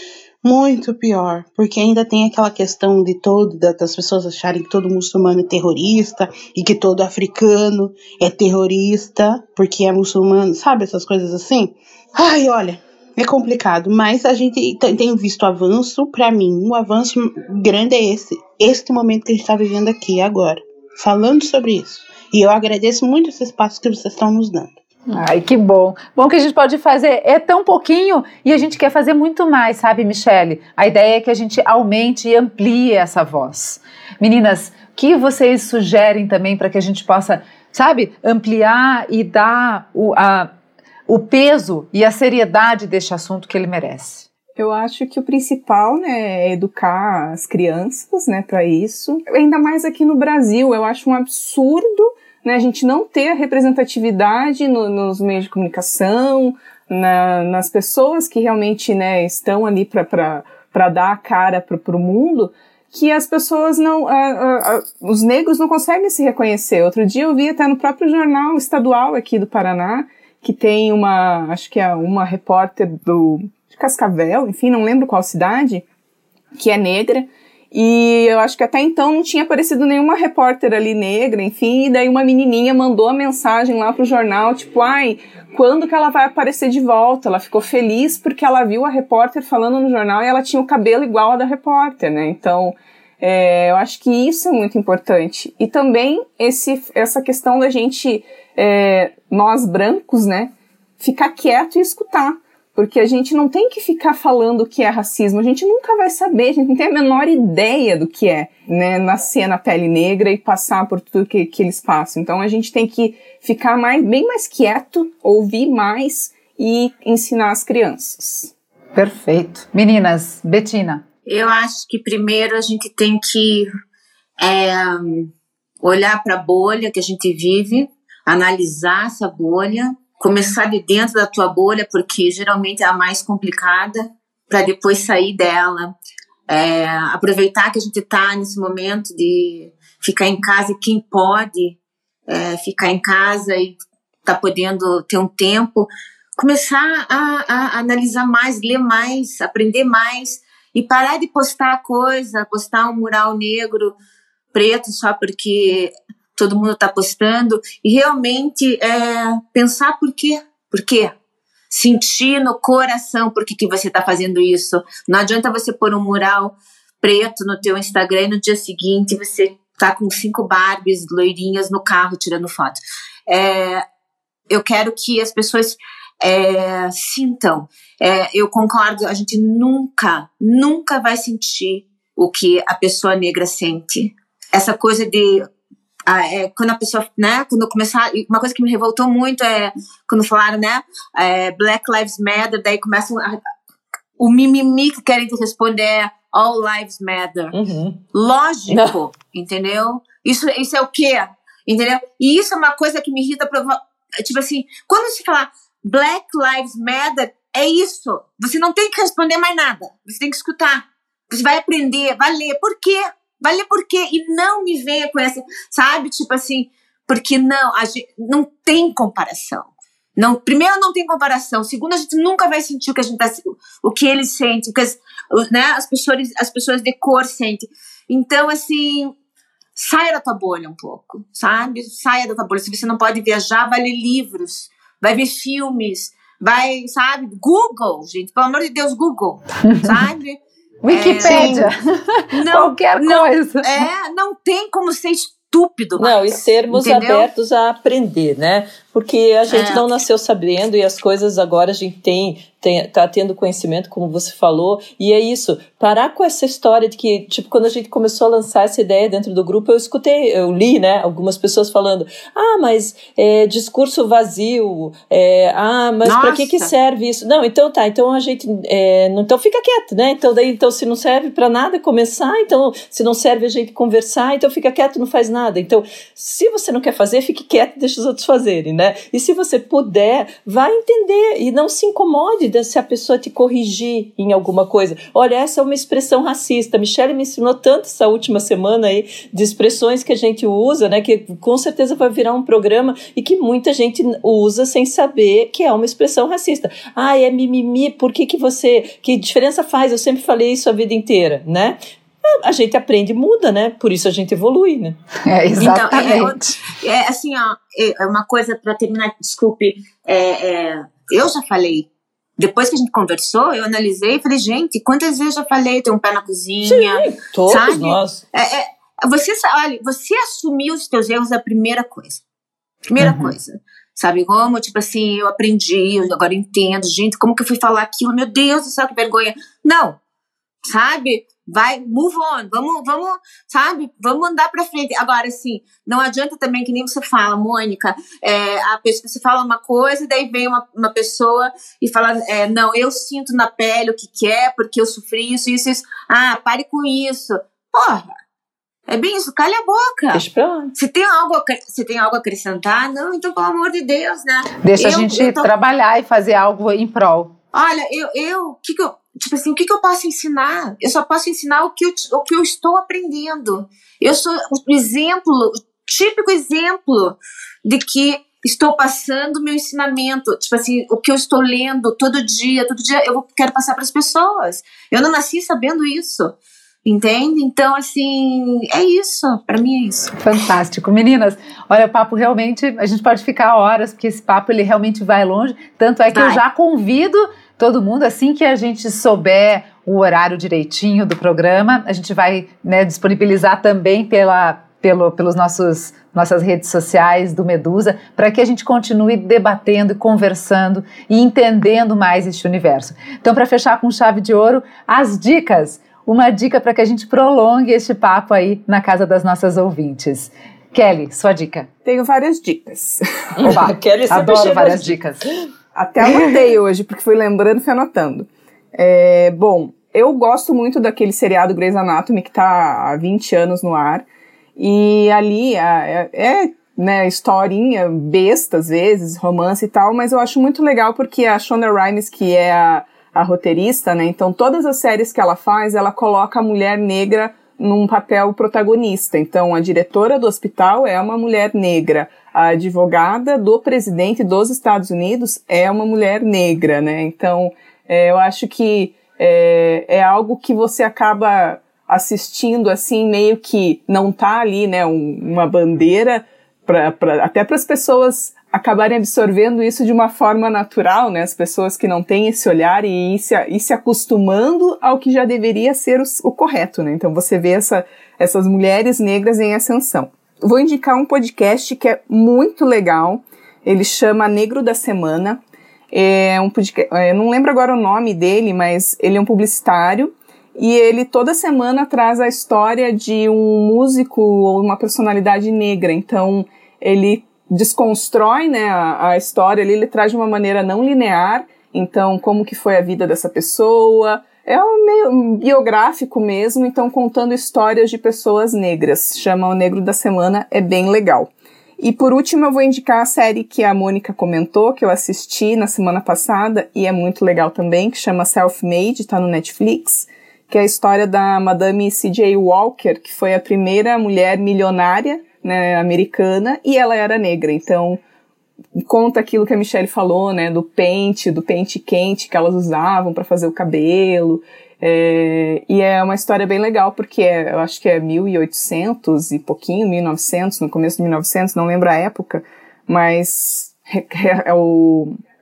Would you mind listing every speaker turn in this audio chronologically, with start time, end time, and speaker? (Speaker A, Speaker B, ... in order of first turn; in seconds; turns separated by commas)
Speaker A: 0.4-24.7, Speaker B: 25.1-40.5, Speaker B: 41.1-44.2, Speaker C: 44.6-75.8, Speaker C: 76.5-118.5, Speaker B: 118.9-121.0, Speaker D: 121.3-123.7, Speaker D: 124.4-125.3, Speaker D: 125.8-135.9, Speaker D: 136.5-153.9, Speaker D: 154.5-161.2, Speaker D: 161.7-173.8, Speaker D: 174.5-185.4, Speaker D: 186.1-193.4, Speaker D: 194.2-197.5, Speaker E: 197.5-198.0, Speaker D: 198.1-229.1, Speaker E: 198.7-199.0, Speaker D: 229.8-241.7, Speaker B: 239.6-240.1, Speaker B: 240.8-243.9, Speaker A: 241.2-241.7, Speaker D: 242.3-247.3, Speaker E: 246.0-301.8, Speaker D: 249.5-249.8, Speaker D: 266.0-266.7, Speaker E: 302.4-305.0, Speaker B: 305.2-306.6, Speaker D: 305.6-322.2, Speaker E: 316.6-318.2, Speaker D: 322.9-330.0, Speaker E: 323.0-323.3, Speaker D: 330.6-348.1, Speaker D: 348.9-350.2, Speaker E: 350.1-350.7, Speaker D: 350.7-355.5, Speaker B: 354.6-357.3, Speaker D: 357.5-380.3, Speaker B: 380.1-411.7, Speaker D: 386.1-386.4, Speaker C: 411.8-413.5, Speaker E: 413.4-415.2, Speaker B: 413.4-415.2, Speaker C: 415.7-475.4, Speaker C: 475.9-518.0, Speaker C: 518.8-535.2